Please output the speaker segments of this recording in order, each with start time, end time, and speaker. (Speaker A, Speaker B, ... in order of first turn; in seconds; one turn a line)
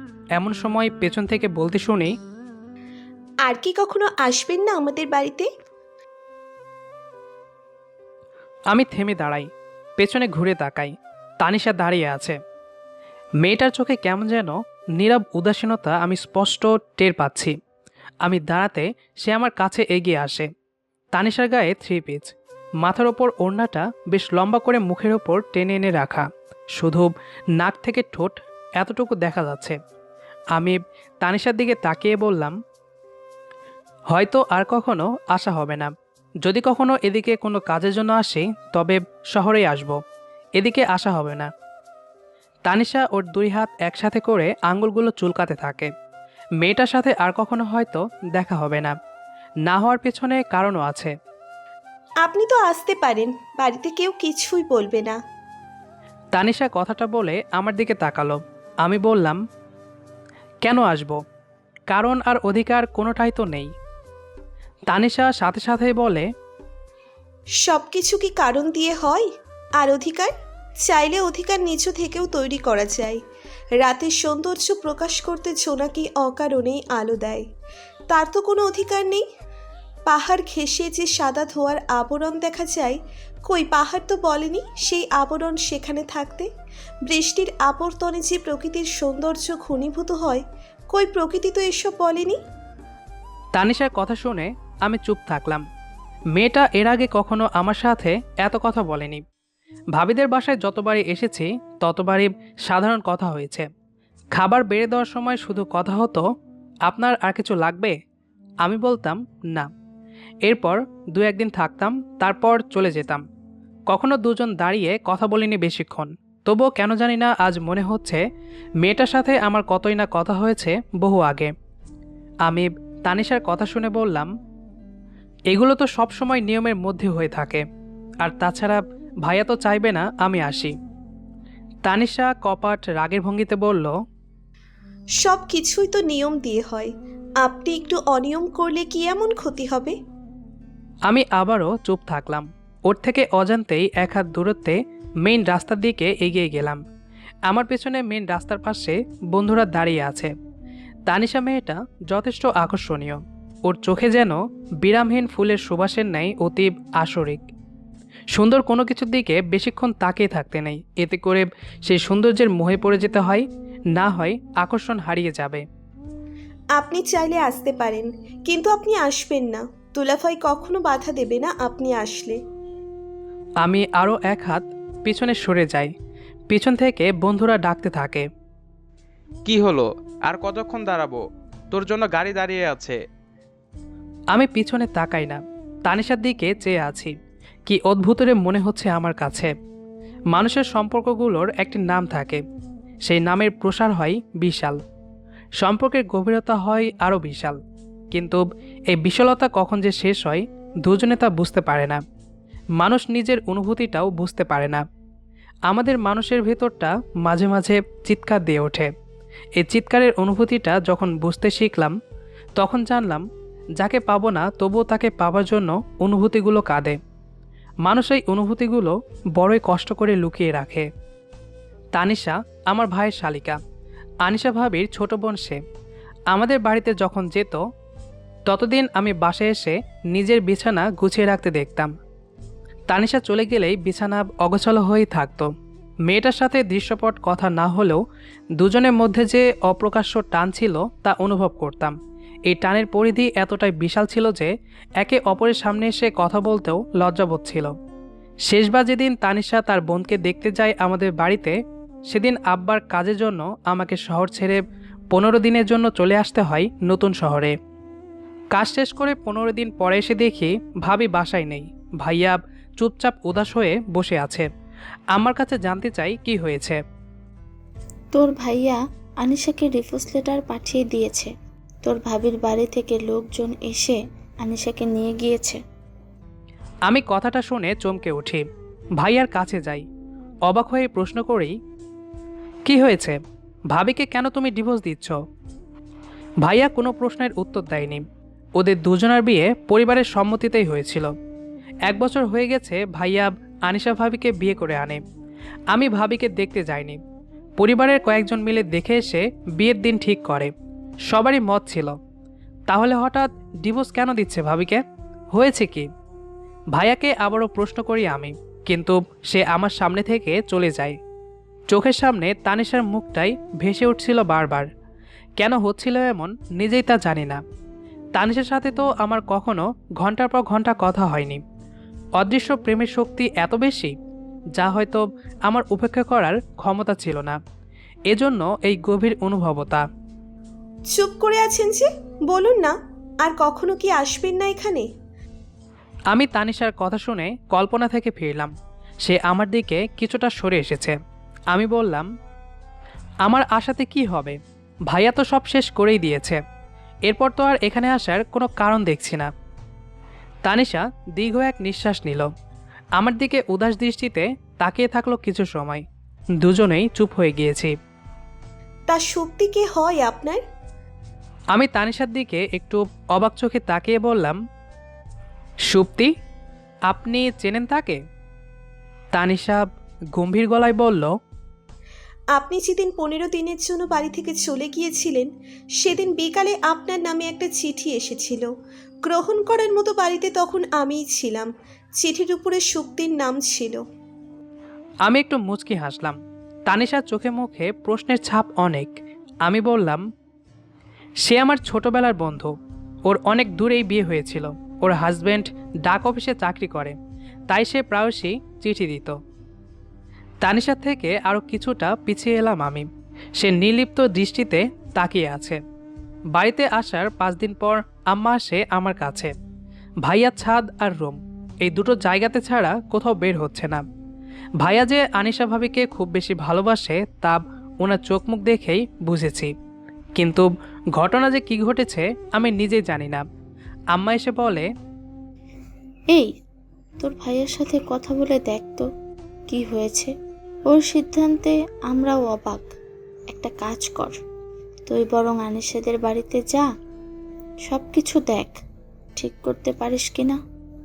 Speaker A: 0.4-2.1
Speaker B: 3.4-5.5
Speaker A: 8.7-12.4
Speaker A: 13.4-17.6
Speaker A: 18.2-20.5
Speaker A: 21.1-29.8
Speaker A: 30.5-32.5
Speaker A: 34.1-40.0
Speaker A: 40.6-41.5
Speaker A: 42.7-45.9
Speaker A: 46.6-48.9
Speaker A: 49.7-51.1
Speaker B: 52.2-55.2
Speaker A: 56.3-59.4
Speaker A: 60.6-61.2
Speaker A: 61.9-63.7
Speaker A: 64.9-66.3
Speaker B: 67.6-73.2
Speaker B: 73.8-77.5
Speaker B: 78.1-79.2
Speaker B: 80.1-86.5
Speaker B: 87.1-92.4
Speaker A: 93.6-95.6
Speaker A: 96.3-99.2
Speaker A: 99.9-103.7
Speaker A: 104.3-106.3
Speaker A: 106.9-108.0
Speaker A: 108.6-109.7
Speaker A: 110.5-113.2
Speaker A: 113.9-118.2
Speaker A: 118.8-121.5
Speaker A: 122.5-124.3
Speaker A: 125.5-127.6
Speaker A: 128.2-130.8
Speaker A: 131.8-134.0
Speaker B: 135.2-140.0
Speaker A: 141.1-146.8
Speaker A: 147.5-150.3
Speaker A: 151.1-157.5
Speaker A: 158.3-165.6
Speaker B: 166.7-172.4
Speaker A: 173.6-175.9
Speaker A: 176.5-178.3
Speaker C: 179.4-181.2
Speaker C: 181.7-183.0
Speaker A: 184.3-187.1
Speaker A: 187.7-189.5
Speaker A: 190.3-192.4
Speaker A: 193.1-194.8
Speaker A: 195.6-197.6
Speaker A: 198.1-202.0
Speaker A: 202.8-204.8
Speaker A: 205.7-208.9
Speaker A: 209.6-212.0
Speaker A: 212.6-213.3
Speaker A: 213.8-217.0
Speaker A: 217.8-220.9
Speaker A: 221.9-223.6
Speaker A: 224.2-225.6
Speaker A: 226.3-227.6
Speaker A: 228.5-231.9
Speaker A: 232.9-235.5
Speaker A: 236.1-238.0
Speaker A: 238.6-242.0
Speaker A: 242.5-247.8
Speaker A: 248.5-251.5
Speaker A: 252.1-254.6
Speaker A: 255.1-257.6
Speaker A: 258.5-264.5
Speaker A: 265.1-266.8
Speaker D: 268.1-271.3
Speaker D: 271.9-275.6
Speaker A: 276.9-278.4
Speaker A: 279.0-279.9
Speaker A: 280.5-281.6
Speaker A: 282.7-283.2
Speaker A: 283.7-285.2
Speaker A: 286.4-288.0
Speaker A: 288.6-291.1
Speaker A: 291.9-295.0
Speaker A: 295.7-297.0
Speaker A: 297.6-300.5
Speaker A: 301.1-302.0
Speaker A: 302.7-304.8
Speaker A: 305.3-305.9
Speaker A: 306.7-311.0
Speaker A: 311.7-314.7
Speaker A: 315.4-317.4
Speaker A: 318.1-321.4
Speaker A: 322.2-323.9
Speaker A: 324.6-327.4
Speaker A: 328.1-329.9
Speaker B: 330.9-334.9
Speaker A: 336.1-338.5
Speaker A: 339.0-340.9
Speaker A: 341.5-342.1
Speaker A: 343.2-344.4
Speaker A: 344.9-346.4
Speaker A: 347.1-349.3
Speaker A: 350.4-352.3
Speaker A: 353.0-355.8
Speaker A: 356.4-357.7
Speaker B: 358.9-360.4
Speaker A: 361.5-364.4
Speaker A: 365.7-366.1
Speaker A: 366.9-368.0
Speaker A: 369.1-371.1
Speaker B: 372.3-378.5
Speaker B: 379.0-383.8
Speaker A: 385.1-390.0
Speaker A: 391.2-392.5
Speaker A: 393.1-396.9
Speaker A: 397.5-399.2
Speaker A: 400.4-402.9
Speaker A: 403.4-405.6
Speaker A: 406.3-409.3
Speaker A: 410.0-413.8
Speaker A: 414.6-419.5
Speaker A: 420.2-423.2
Speaker A: 423.9-424.7
Speaker D: 427.0-428.9
Speaker D: 429.5-430.1
Speaker D: 430.7-432.7
Speaker D: 433.3-434.2
Speaker D: 434.9-436.7
Speaker D: 437.7-438.6
Speaker D: 439.2-440.4